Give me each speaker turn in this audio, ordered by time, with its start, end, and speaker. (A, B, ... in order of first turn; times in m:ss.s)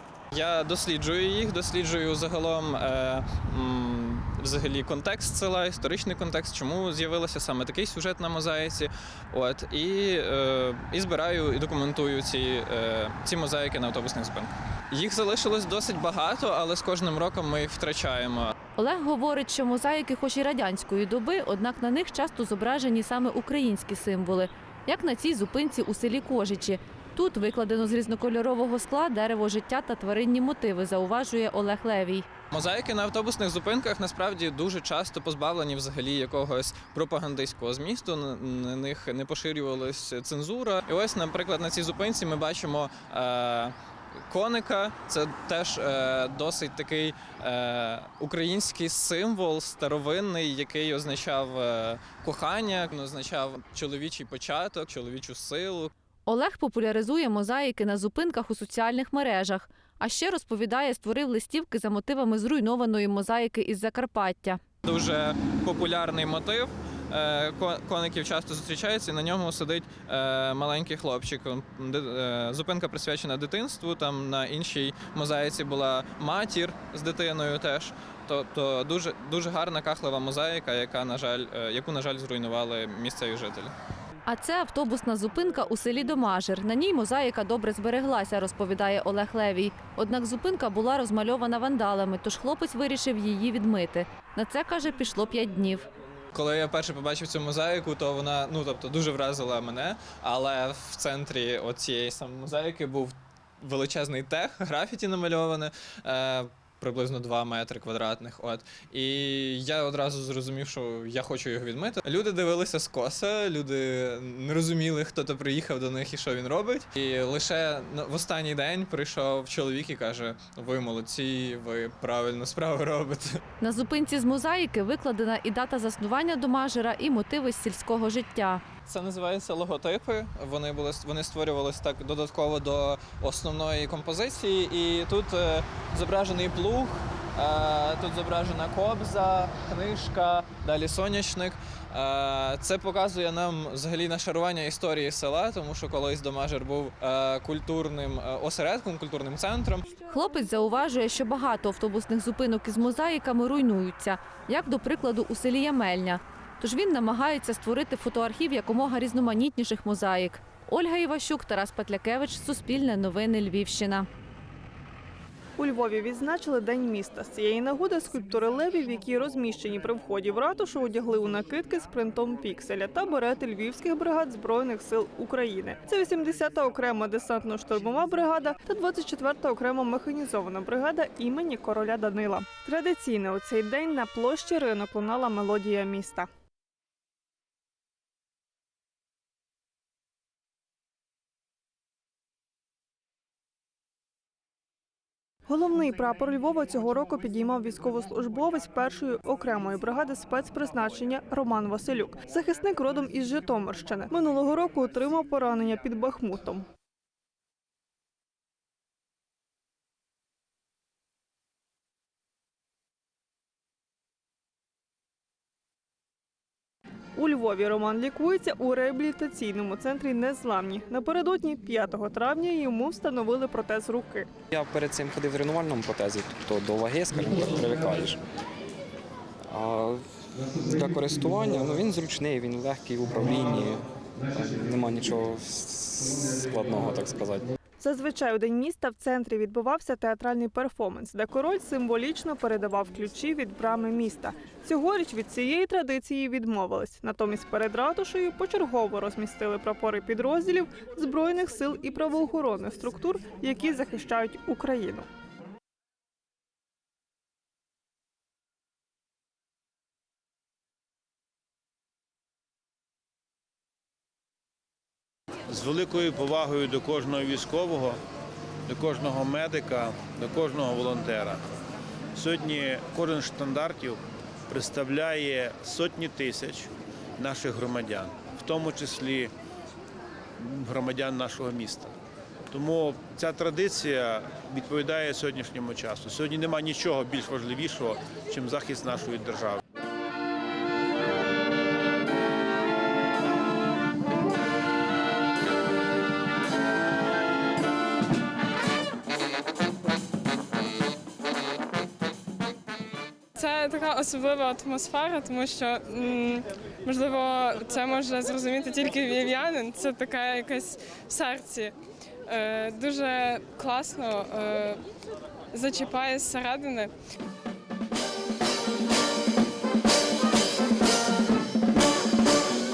0:00.3-0:18.5 A
0:18.8-0:32.2 B
0:32.5-0:43.8 A
0:44.3-0:55.9 A
0:56.3-1:04.6 B
1:04.8-1:23.7 A
1:24.3-1:35.8 B
1:36.3-2:03.4 A
2:03.6-2:08.6 B
2:08.8-2:29.9 A
2:30.1-2:44.1 B
2:45.6-3:06.3 C
3:15.5-3:26.6 C
3:37.2-3:44.3 C
3:44.5-3:48.2 D
3:49.5-3:50.0 D
3:50.6-3:53.8 D
3:54.4-3:57.4 D
3:57.8-4:15.1 C
4:25.5-4:28.0 E
4:28.7-4:31.4 E
4:32.2-4:39.3 E
4:40.4-4:41.9 E
4:42.5-4:49.6 E
5:03.4-5:11.7 F
5:12.3-5:14.7 F
5:15.5-5:16.9 F